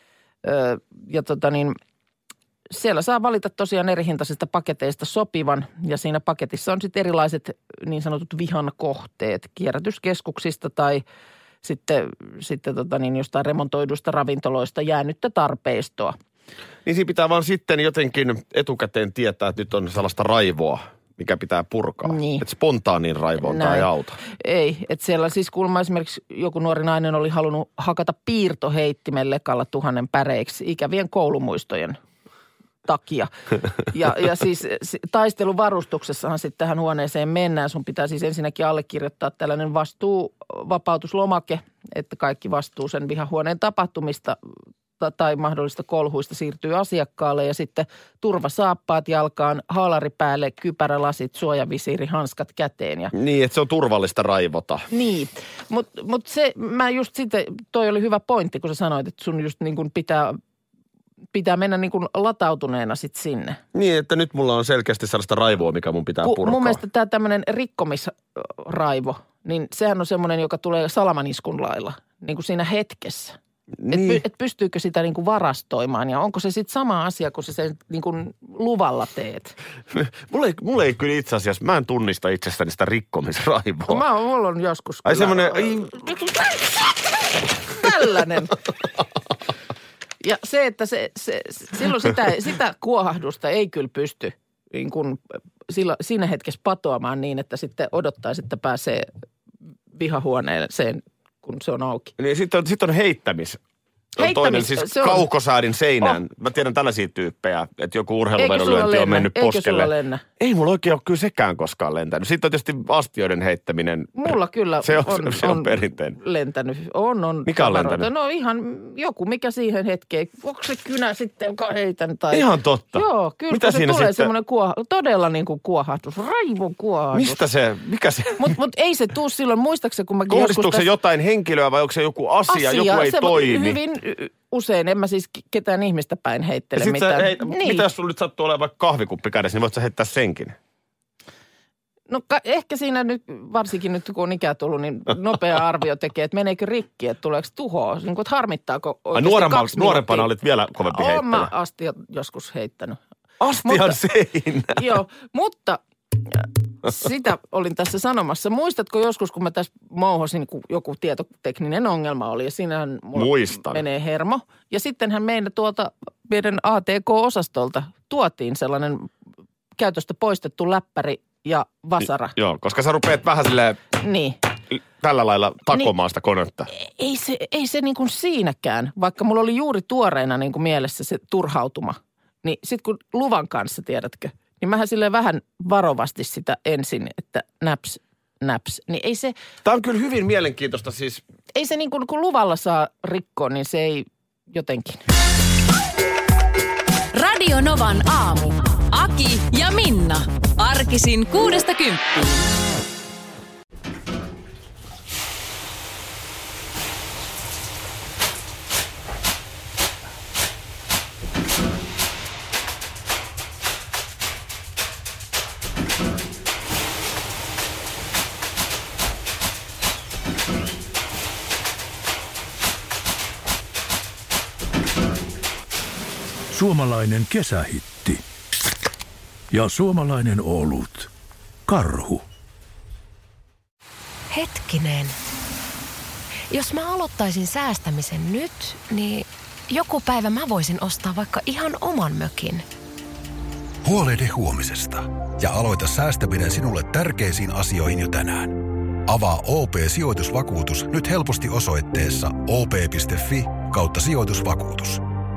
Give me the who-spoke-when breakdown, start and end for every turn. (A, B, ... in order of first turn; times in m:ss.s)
0:00.4-0:01.8 A
0:02.7-0:11.0 A
0:11.6-0:16.2 A
0:16.8-0:24.2 B
0:22.0-0:22.4 A
0:23.4-0:32.0 A
0:32.8-0:33.3 A
0:33.8-0:44.4 A
0:45.0-0:53.1 A
0:53.1-0:54.8 B
0:54.9-1:00.4 A
1:01.3-1:03.6 A
1:03.7-1:06.8 B
1:06.2-1:13.4 A
1:13.8-1:14.2 B
1:13.9-1:19.5 A
1:19.9-1:24.0 B
1:23.9-1:26.1 A
1:25.0-1:26.2 B
1:27.7-1:28.6 A
1:30.2-1:39.1 A
1:39.9-1:42.1 A
1:42.2-1:43.6 B
1:44.2-1:54.3 B
1:44.2-1:45.3 A
1:48.4-1:50.2 A
1:54.2-2:07.4 A
1:54.8-1:56.2 B
1:57.5-1:58.1 B
2:02.3-2:04.3 B
2:07.1-2:08.5 B
2:08.4-2:10.9 A
2:10.3-2:13.8 B
2:12.5-2:17.9 A
2:16.8-2:20.6 B
2:22.1-2:30.3 A
2:29.1-2:31.5 B
2:30.9-2:33.0 A
2:33.4-2:34.9 B
2:33.6-2:34.0 A
2:34.7-2:49.1 A
2:43.1-2:43.8 B
2:49.8-2:52.3 A
2:52.4-2:53.8 B
2:54.0-2:54.4 A
2:55.0-2:56.7 B
2:56.7-3:09.3 A
3:09.6-3:11.2 B
3:11.5-3:15.0 A
3:17.2-3:22.2 C
3:46.5-3:48.2 D
3:49.5-3:51.1 D
3:51.7-3:52.2 D
3:54.3-3:55.2 E
3:56.5-4:02.6 E
4:03.8-4:15.0 F